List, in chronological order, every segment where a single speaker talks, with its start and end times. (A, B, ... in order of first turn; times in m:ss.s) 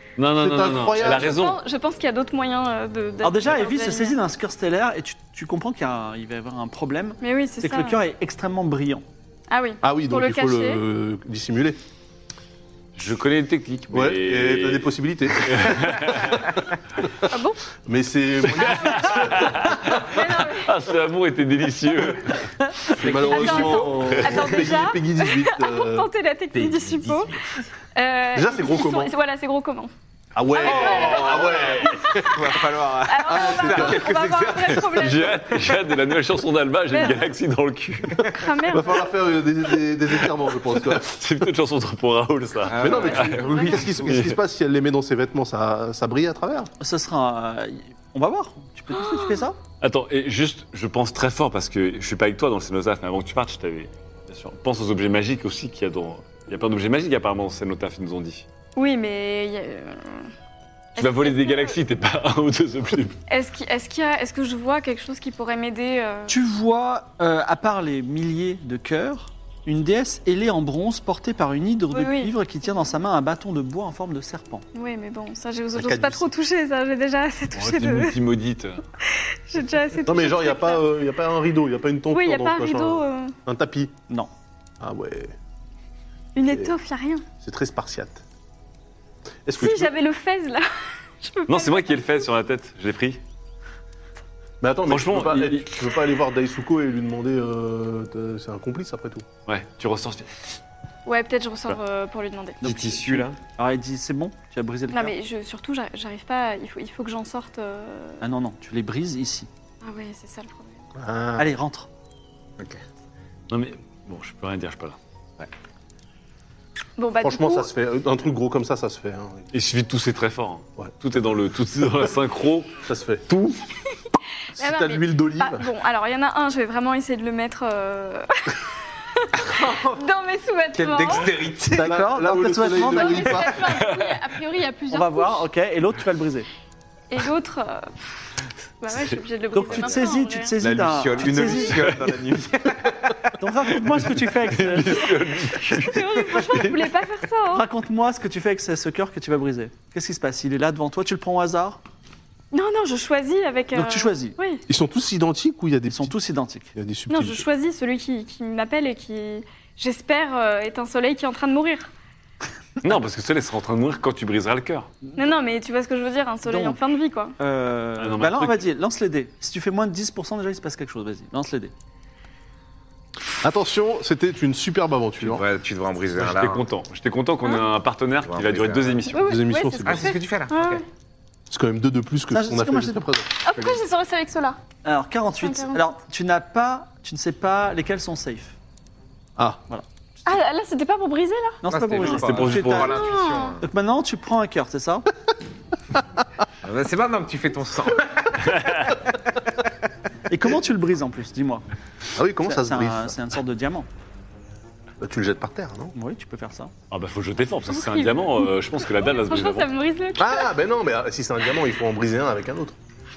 0:00.2-0:01.6 A
0:00.4-0:01.3 B
0:01.0-0:04.2 C
0:03.2-0:09.0 D
0:07.2-0:08.0 C
0:09.5-0:10.8 C
0:09.8-0:11.8 B
0:12.9-0:16.5 A
0:13.9-0:16.5 B
0:17.3-0:17.6 C
0:17.8-0:20.0 B
0:18.5-0:22.4 A
0:18.6-0:20.7 C
0:22.6-0:22.9 D
0:22.9-0:26.1 B
0:23.0-0:24.5 A
0:23.3-0:27.3 C
0:26.5-0:27.4 E
0:27.9-0:29.9 C
0:28.3-0:29.1 B
0:30.3-0:32.4 B
0:30.5-0:31.9 C
0:30.6-0:35.8 E
0:30.9-0:31.6 A
0:33.1-0:35.7 C
0:33.3-0:34.1 B
0:35.0-0:38.4 A
0:36.9-0:37.3 C
0:38.3-0:39.1 C
0:38.7-0:41.1 B
0:40.8-0:44.4 A
0:42.6-0:44.3 E
0:42.8-0:46.7 B
0:42.9-0:43.9 C
0:46.8-0:49.6 D
0:48.9-0:49.5 C
0:49.8-0:58.4 A
0:58.8-1:00.3 C
1:01.0-1:01.8 C
1:01.0-1:03.2 A
1:03.3-1:06.3 C
1:06.3-1:14.6 D
1:11.9-1:12.3 C
1:14.7-1:18.2 C
1:15.7-1:16.3 B
1:17.5-1:18.8 A
1:19.0-1:20.8 C
1:20.0-1:23.9 B
1:22.1-1:23.4 C
1:24.8-1:25.3 B
1:26.3-1:27.2 C
1:26.4-1:26.7 B
1:27.4-1:28.2 B
1:29.4-1:29.9 B
1:29.6-1:30.6 C
1:31.2-1:32.1 C
1:31.5-1:33.2 A
1:34.6-1:39.2 B
1:34.9-1:35.8 A
1:39.5-1:40.4 A
1:41.0-1:42.6 C
1:42.6-1:43.4 E
1:42.6-1:45.1 D
1:44.9-1:48.2 C
1:48.2-1:49.5 D
1:49.8-1:50.8 C
1:51.0-1:51.5 B
1:51.4-1:51.9 D
1:53.5-1:55.0 A
1:57.0-1:57.7 C
1:57.2-1:59.5 B
1:59.5-2:03.6 A
2:02.8-2:03.2 B
2:04.5-2:05.6 B
2:04.6-2:09.3 C
2:09.4-2:10.0 E
2:09.9-2:11.3 C
2:10.7-2:12.0 E
2:11.8-2:13.6 B
2:11.8-2:13.4 D
2:12.8-2:15.4 C
2:13.7-2:14.2 A
2:14.9-2:16.5 D
2:17.1-2:18.1 C
2:18.8-2:20.5 C
2:19.5-2:22.0 D
2:20.6-2:23.3 E
2:21.7-2:22.3 A
2:23.4-2:25.1 D
2:23.9-2:26.8 A
2:25.7-2:27.6 C
2:27.5-2:31.8 D
2:32.5-2:34.6 C
2:33.7-2:34.4 D
2:34.7-2:36.1 B
2:35.8-2:36.7 D
2:36.7-2:37.4 B
2:37.1-2:41.9 C
2:42.8-2:44.9 A
2:45.2-2:47.3 C
2:46.4-2:46.8 D
2:47.4-2:51.7 D
2:48.0-2:48.7 A
2:53.4-2:55.4 B
2:55.2-2:56.6 E
2:56.2-2:59.3 A
2:58.2-2:59.1 E
2:59.1-3:00.8 C
2:59.2-3:00.2 B
2:59.8-3:00.8 E
3:01.5-3:03.3 B
3:02.3-3:03.0 D
3:03.4-3:04.6 C
3:03.5-3:03.8 E
3:04.8-3:08.6 D
3:05.4-3:05.8 C
3:10.2-3:11.6 C
3:11.6-3:12.9 D
3:11.6-3:13.6 E
3:12.0-3:12.9 A
3:12.8-3:13.6 C
3:13.6-3:15.1 D
3:16.6-3:18.6 E
3:18.4-3:18.9 A
3:20.3-3:21.6 D
3:22.2-3:23.2 B
3:22.4-3:23.9 D
3:25.0-3:25.9 B
3:25.9-3:26.7 D
3:26.9-3:29.7 A
3:27.7-3:30.5 C
3:30.2-3:32.8 B